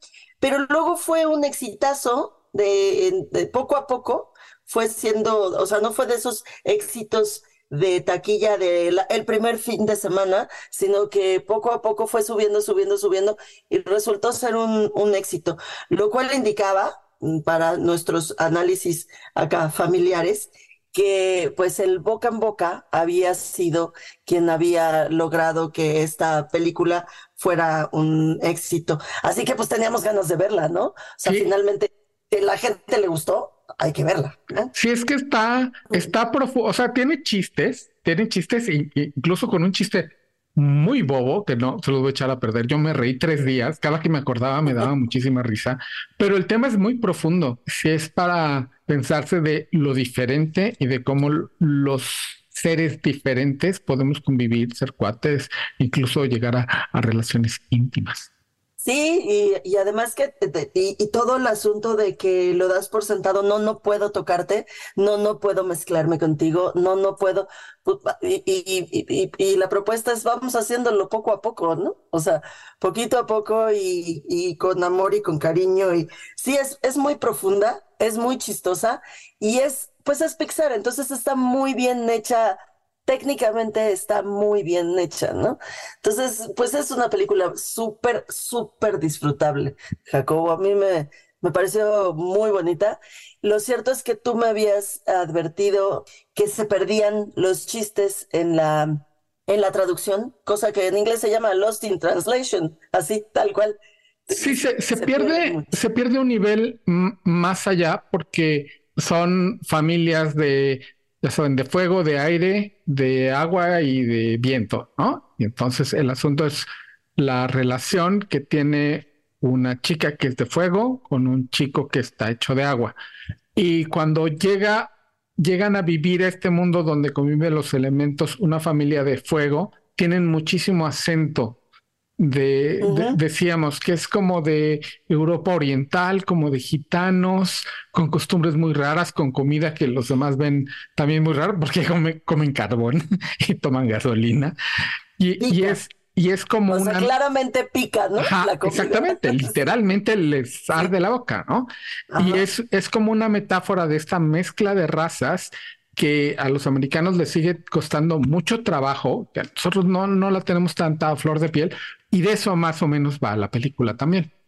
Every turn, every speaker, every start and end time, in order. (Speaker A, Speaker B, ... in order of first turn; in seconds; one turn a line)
Speaker A: 0.4-34.7
Speaker B: 34.7-58.3
Speaker A: 58.8-103.8
Speaker A: 104.3-105.7
Speaker B: 104.3-123.0
Speaker B: 123.5-131.6
Speaker B: 132.2-144.6
Speaker A: 132.8-133.2
Speaker B: 145.2-147.1
Speaker A: 145.4-145.8
Speaker A: 146.7-149.5
Speaker B: 148.2-164.3
Speaker A: 152.1-152.4